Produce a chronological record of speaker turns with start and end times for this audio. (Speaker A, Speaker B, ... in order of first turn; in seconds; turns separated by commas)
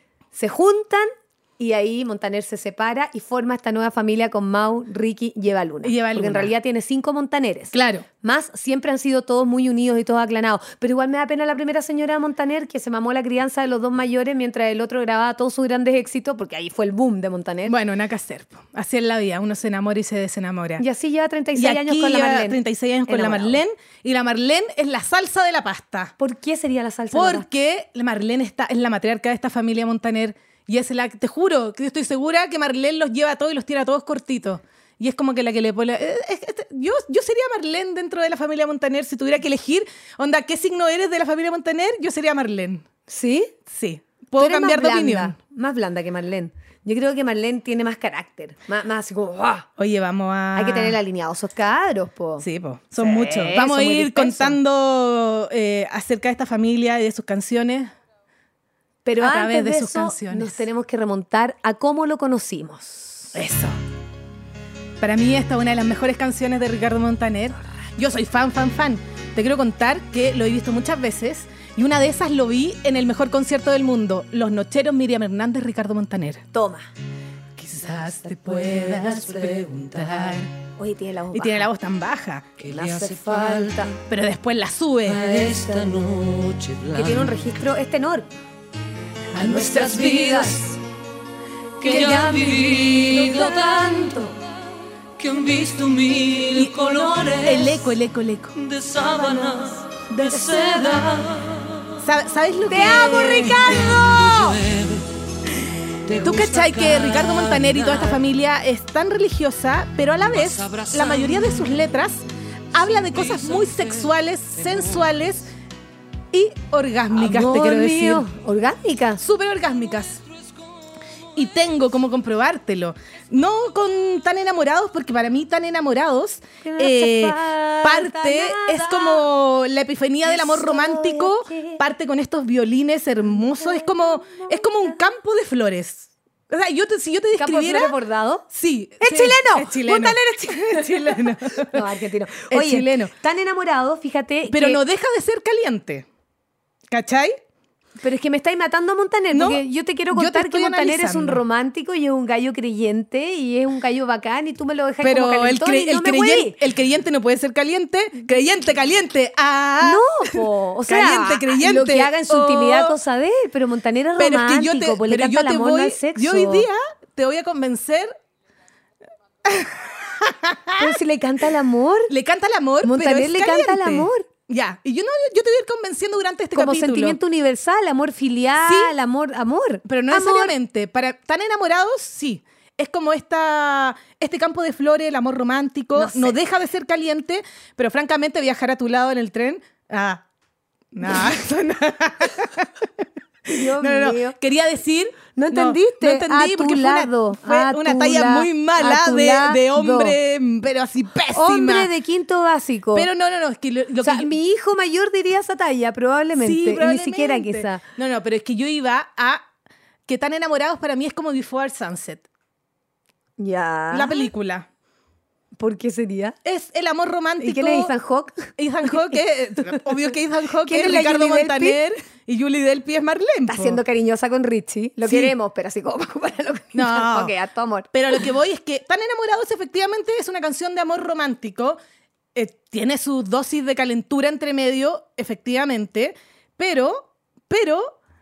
Speaker A: 0.3-17.8, Speaker B: 5.8-6.5, Speaker B: 7.7-8.1, Speaker B: 17.7-20.8, Speaker A: 20.8-23.6, Speaker B: 21.6-26.1, Speaker A: 26.2-27.5, Speaker B: 27.1-42.9, Speaker A: 43.1-43.5, Speaker B: 43.7-45.4, Speaker A: 44.4-49.7, Speaker B: 49.8-51.0, Speaker A: 50.5-52.5, Speaker B: 52.4-57.9, Speaker A: 53.0-54.6, Speaker A: 59.0-63.4, Speaker B: 59.2-60.6, Speaker B: 63.3-63.8, Speaker B: 65.0-76.4, Speaker A: 76.5-76.9, Speaker B: 77.6-80.5, Speaker C: 78.5-80.3, Speaker A: 80.8-81.7, Speaker B: 81.3-82.5, Speaker C: 82.6-84.0, Speaker A: 82.6-83.9, Speaker B: 84.1-85.3, Speaker C: 85.1-87.5, Speaker A: 85.3-86.2, Speaker A: 86.9-88.3, Speaker A: 89.4-90.7, Speaker C: 89.4-90.7, Speaker B: 89.4-90.2, Speaker C: 91.8-94.0, Speaker A: 91.8-94.3, Speaker C: 95.2-97.8, Speaker B: 96.5-98.5, Speaker C: 98.5-102.0, Speaker A: 99.2-101.3, Speaker B: 102.0-103.9, Speaker A: 102.7-104.6, Speaker C: 103.5-105.1, Speaker C: 106.0-108.2, Speaker B: 106.2-115.5, Speaker C: 110.4-111.7, Speaker C: 113.0-115.0, Speaker B: 116.3-118.3, Speaker A: 117.1-119.2, Speaker B: 119.2-120.2, Speaker B: 121.3-138.0, Speaker A: 126.6-129.3, Speaker A: 130.2-131.8, Speaker A: 133.5-135.0, Speaker A: 137.4-138.5, Speaker B: 138.5-141.9, Speaker A: 139.0-144.8, Speaker B: 142.5-143.1, Speaker B: 144.5-146.1, Speaker B: 146.9-147.4, Speaker A: 148.0-156.6, Speaker B: 149.3-151.4, Speaker B: 155.0-163.0, Speaker A: 159.8-166.7, Speaker B: 164.2-168.1, Speaker B: 169.4-170.9, Speaker A: 170.8-172.1, Speaker B: 172.1-177.2, Speaker A: 172.8-174.3, Speaker A: 176.5-180.6, Speaker B: 178.6-178.9, Speaker B: 179.8-190.2, Speaker A: 186.0-186.4, Speaker B: 190.9-201.9, Speaker A: 193.5-194.4, Speaker A: 195.3-200.2, Speaker A: 201.3-203.1, Speaker B: 202.9-204.3, Speaker A: 204.0-207.8, Speaker B: 206.4-209.4, Speaker B: 210.1-212.3, Speaker A: 213.4-214.3, Speaker B: 213.9-214.7, Speaker A: 215.6-216.4, Speaker B: 216.4-217.9, Speaker A: 217.4-218.9, Speaker B: 218.6-223.8, Speaker A: 220.6-221.8, Speaker A: 223.5-227.9, Speaker B: 225.1-225.3, Speaker B: 226.7-227.3, Speaker B: 227.9-231.8, Speaker B: 232.3-238.0